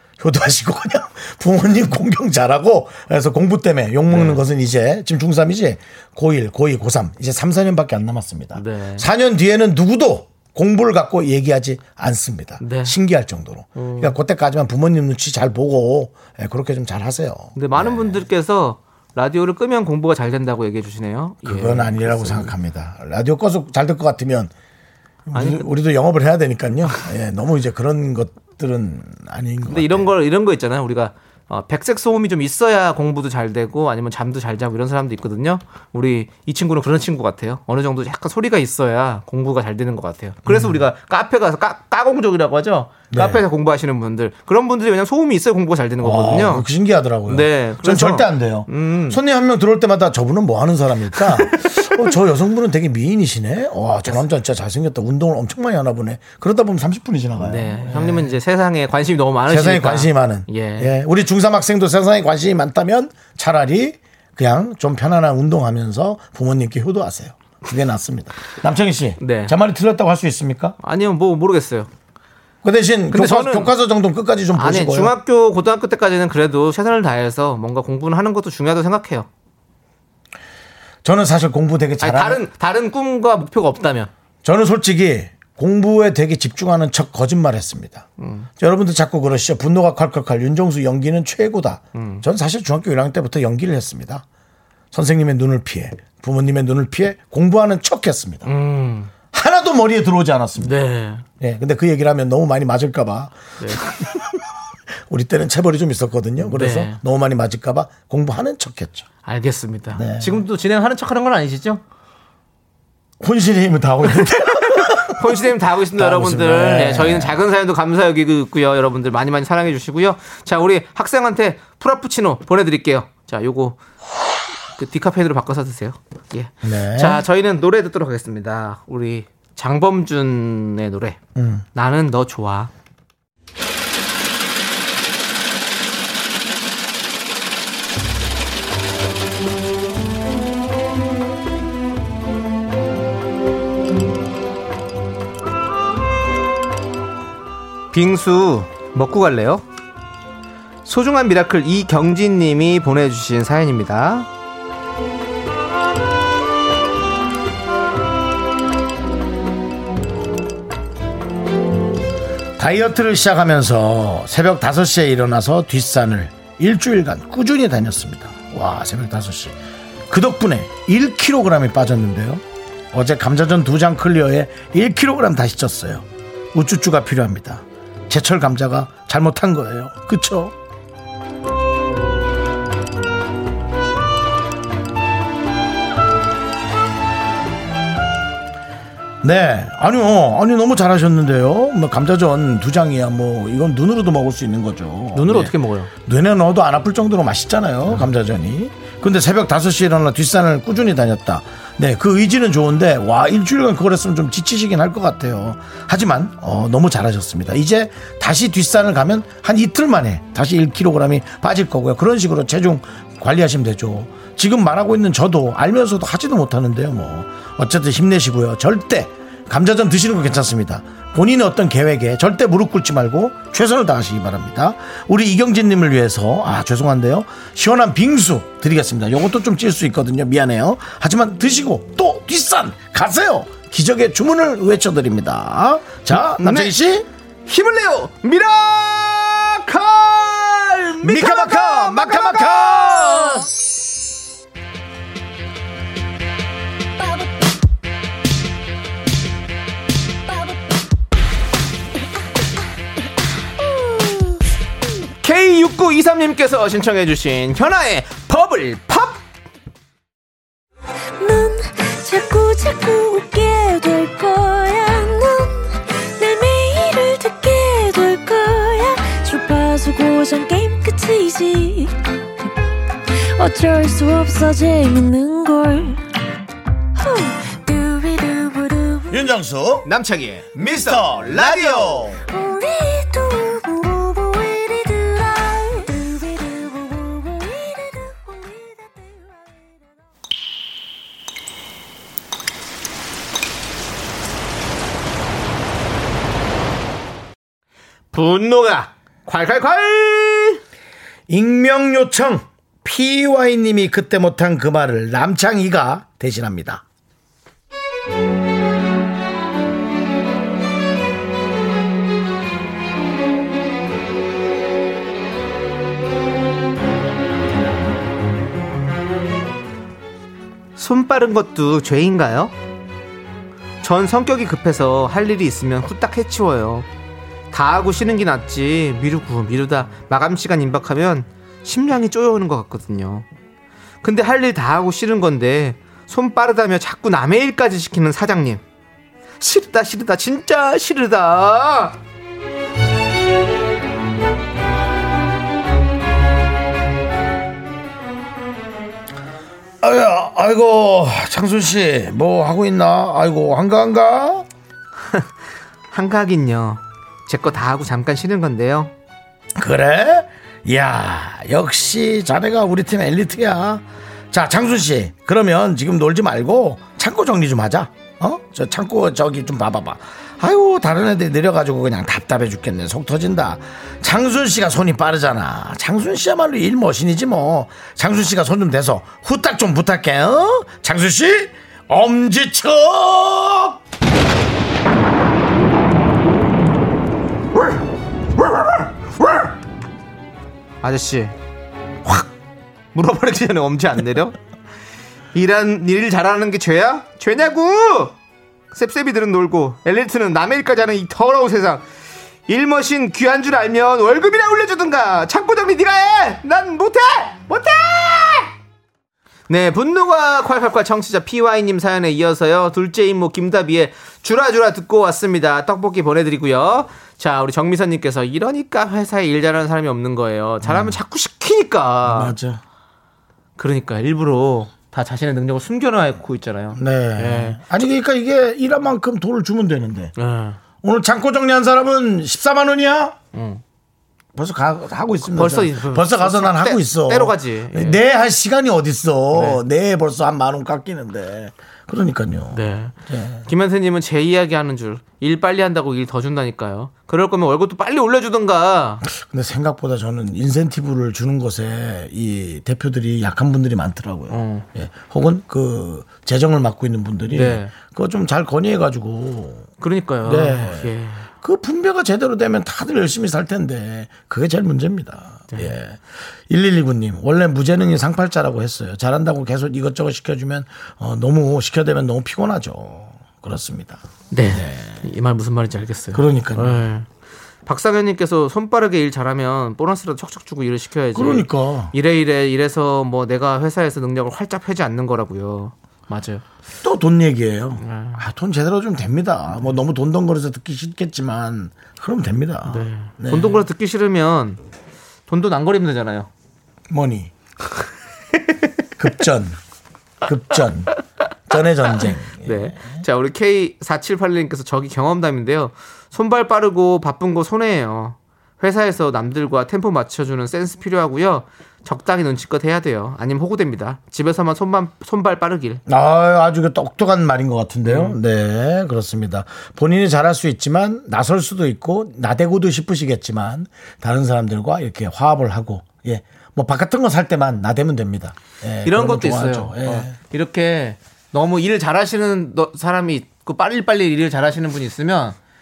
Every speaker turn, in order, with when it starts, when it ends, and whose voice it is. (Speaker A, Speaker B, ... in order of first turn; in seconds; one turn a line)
Speaker A: 0.2-18.2
Speaker B: 4.1-4.4
Speaker B: 8.5-9.1
Speaker B: 12.6-12.9
Speaker B: 13.8-14.2
Speaker B: 17.6-22.5
Speaker A: 21.4-24.5
Speaker A: 25.3-30.1
Speaker B: 25.3-25.7
Speaker B: 29.7-46.7
Speaker A: 40.5-40.8
Speaker A: 43.1-43.4
Speaker A: 46.0-58.3
Speaker B: 47.3-49.2
Speaker B: 51.4-52.0
Speaker B: 57.4-60.9
Speaker A: 59.5-70.8
Speaker B: 69.2-69.5
Speaker B: 70.8-71.9
Speaker A: 72.6-75.1
Speaker B: 73.1-73.7
Speaker B: 74.5-79.3
Speaker A: 81.0-82.4
Speaker B: 82.0-84.1
Speaker A: 84.4-88.1
Speaker B: 88.2-88.5
Speaker A: 88.6-94.2
Speaker B: 92.0-92.2
Speaker A: 94.9-98.5
Speaker B: 98.5-99.1
Speaker A: 99.3-100.8
Speaker B: 100.6-101.2
Speaker A: 101.4-104.2
Speaker B: 103.6-103.9
Speaker A: 105.1-109.1
Speaker B: 106.4-107.0
Speaker B: 109.2-111.8
Speaker A: 109.9-110.4
Speaker A: 113.2-117.4
Speaker B: 114.4-123.8
Speaker B: 124.8-131.2
Speaker A: 126.6-127.2
Speaker A: 131.3-131.6
Speaker B: 131.7-132.7
Speaker B: 147.9-149.6
Speaker B: 150.9-154.3
Speaker A: 162.6-169.6
Speaker A: 170.1-180.5
Speaker A: 189.2-237.1
Speaker B: 195.1-195.9
Speaker B: 236.4-236.8
Speaker B: 237.5-243.5
Speaker A: 241.0-243.5
Speaker C: 253.9-254.3
Speaker B: 255.2-259.2
Speaker C: 261.2-272.5
Speaker C: 273.1-276.0
Speaker C: 277.0-279.2
Speaker A: 279.1-279.9
Speaker B: 279.9-282.1
Speaker A: 280.6-282.2
Speaker C: 282.3-289.6
Speaker B: 298.1-300.6
Speaker A: 301.3-306.8
Speaker B: 320.8-322.5
Speaker B: 323.8-326.9
Speaker B: 327.5-333.3
Speaker B: 334.0-338.6
Speaker B: 339.4-342.0
Speaker A: 349.8-354.4
Speaker B: 355.9-358.9
Speaker A: 359.6-383.8
Speaker A: 388.4-389.3
Speaker B: 390.8-391.4
Speaker B: 392.9-394.4
Speaker B: 395.3-398.1
Speaker B: 398.7-401.8
Speaker B: 402.5-408.5
Speaker B: 409.5-422.4
Speaker A: 420.6-421.0
Speaker A: 422.1-422.6
Speaker B: 423.6-427.6
Speaker A: 426.8-430.1
Speaker B: 430.2-430.6
Speaker A: 430.8-433.1
Speaker B: 433.3-433.6
Speaker A: 434.4-443.4
Speaker B: 435.3-438.0
Speaker B: 439.3-439.6
Speaker B: 442.5-442.9
Speaker B: 443.4-449.0
Speaker A: 449.0-459.7
Speaker B: 454.3-454.6
Speaker B: 457.3-457.7
Speaker B: 459.8-461.3
Speaker A: 460.2-475.0
Speaker B: 474.3-477.1
Speaker A: 476.1-476.8
Speaker B: 477.6-486.4
Speaker A: 481.1-481.9
Speaker A: 486.8-493.6
Speaker B: 487.8-488.2
Speaker B: 492.6-494.6
Speaker B: 495.3-496.3
Speaker A: 496.9-497.3
Speaker A: 499.0-499.6
Speaker A: 500.2-500.9
Speaker A: 501.5-503.0
Speaker B: 502.4-515.8
Speaker A: 515.9-530.1
Speaker B: 517.9-518.2
Speaker B: 528.9-535.4